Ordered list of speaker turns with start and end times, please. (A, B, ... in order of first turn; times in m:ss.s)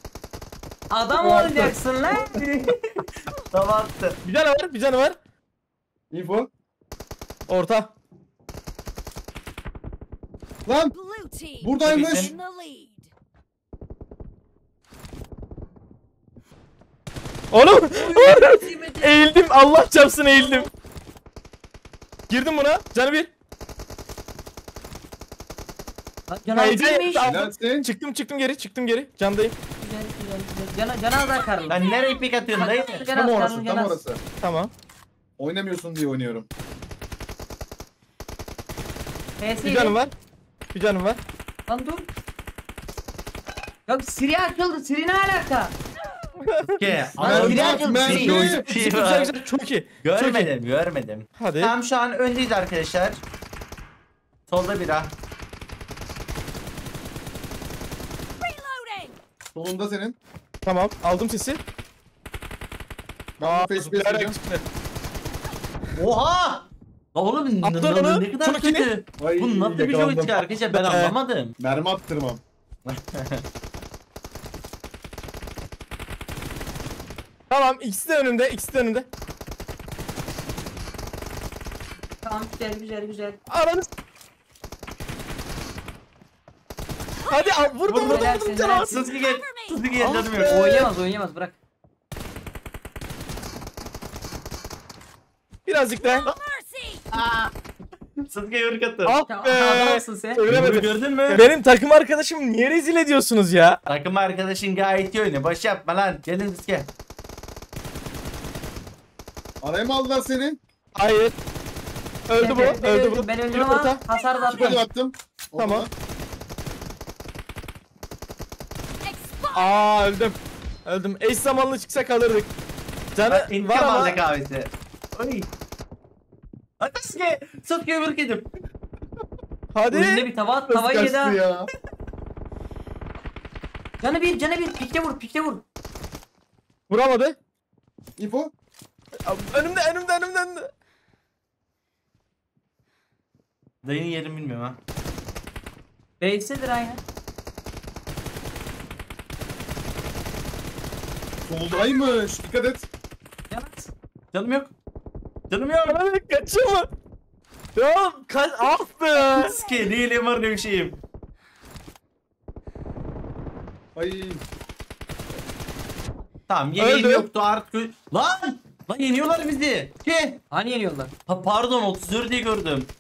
0:00.9-0:02.4 A
0:01.3-0:01.7 B
0:02.0-0:04.2 C
0:04.2-0:05.2 B
0:06.1-0:06.5 D
0:07.5-0:07.9 B
0:10.6-0:10.9 D
0:10.9-0:13.1 E
0:11.6-0:12.3 D
0:11.8-0:12.3 C
0:17.5-0:20.7 B
0:17.9-0:19.0 A
0:18.8-0:19.1 E
0:22.3-0:23.3 B
0:26.3-0:27.4 A
0:26.5-0:29.5 B
0:27.1-0:27.9 D
0:29.8-0:31.9 A
0:31.6-0:32.2 E
0:31.7-0:33.1 C
0:32.5-0:34.0 A
0:33.1-0:34.2 D
0:34.4-0:34.7 B
0:35.4-0:36.5 D
0:39.4-0:40.0 A
0:39.6-0:40.1 B
0:40.7-0:41.2 B
0:41.7-0:42.1 A
0:43.9-0:45.7 A
0:46.4-0:46.9 B
0:46.7-0:49.4 C
0:47.2-0:48.6 D
0:47.2-0:48.6 A
0:48.6-0:50.5 B
0:50.0-0:53.2 C
0:51.4-0:51.7 B
0:54.5-0:55.1 C
0:58.4-0:59.2 E
0:59.5-1:00.2 D
1:00.6-1:01.6 B
1:03.4-1:04.4 D
1:03.4-1:04.6 B
1:06.0-1:11.5 C
1:07.6-1:08.9 B
1:09.2-1:10.5 D
1:10.7-1:11.1 B
1:11.6-1:12.4 D
1:12.8-1:13.4 C
1:17.5-1:19.1 B
1:22.2-1:23.4 A
1:23.5-1:23.9 B
1:27.2-1:27.8 E
1:27.3-1:28.9 B
1:27.8-1:30.8 C
1:27.9-1:29.0 A
1:28.7-1:29.8 E
1:30.0-1:30.9 B
1:30.4-1:31.6 A
1:35.6-1:36.2 B
1:36.0-1:37.2 E
1:37.1-1:37.5 C
1:38.2-1:39.2 C
1:39.0-1:43.8 B
1:39.3-1:40.4 A
1:40.5-1:41.5 C
1:43.9-1:46.9 C
1:49.6-1:50.6 D
1:51.0-1:51.3 B
1:52.3-1:54.0 B
1:52.4-1:54.8 A
1:54.1-1:54.8 E
1:54.5-1:55.9 D
1:55.6-1:55.9 B
1:59.0-1:59.8 E
1:59.5-2:02.5 B
2:03.1-2:04.2 B
2:03.3-2:05.5 C
2:06.8-2:08.5 C
2:09.7-2:10.3 B
2:09.9-2:11.4 A
2:10.7-2:11.7 D
2:14.0-2:15.6 A
2:16.9-2:17.4 B
2:18.2-2:18.5 D
2:19.2-2:20.7 B
2:23.8-2:24.8 C
2:26.2-2:27.0 A
2:31.4-2:32.9 D
2:33.5-2:33.9 A
2:34.3-2:34.7 C
2:35.5-2:36.0 C
2:35.8-2:36.9 B
2:37.8-2:39.6 B
2:39.3-2:39.9 E
2:39.3-2:41.0 C
2:44.0-2:44.4 D
2:46.5-2:50.4 C
2:46.8-2:47.3 B
2:50.5-2:51.1 A
2:51.3-2:52.9 C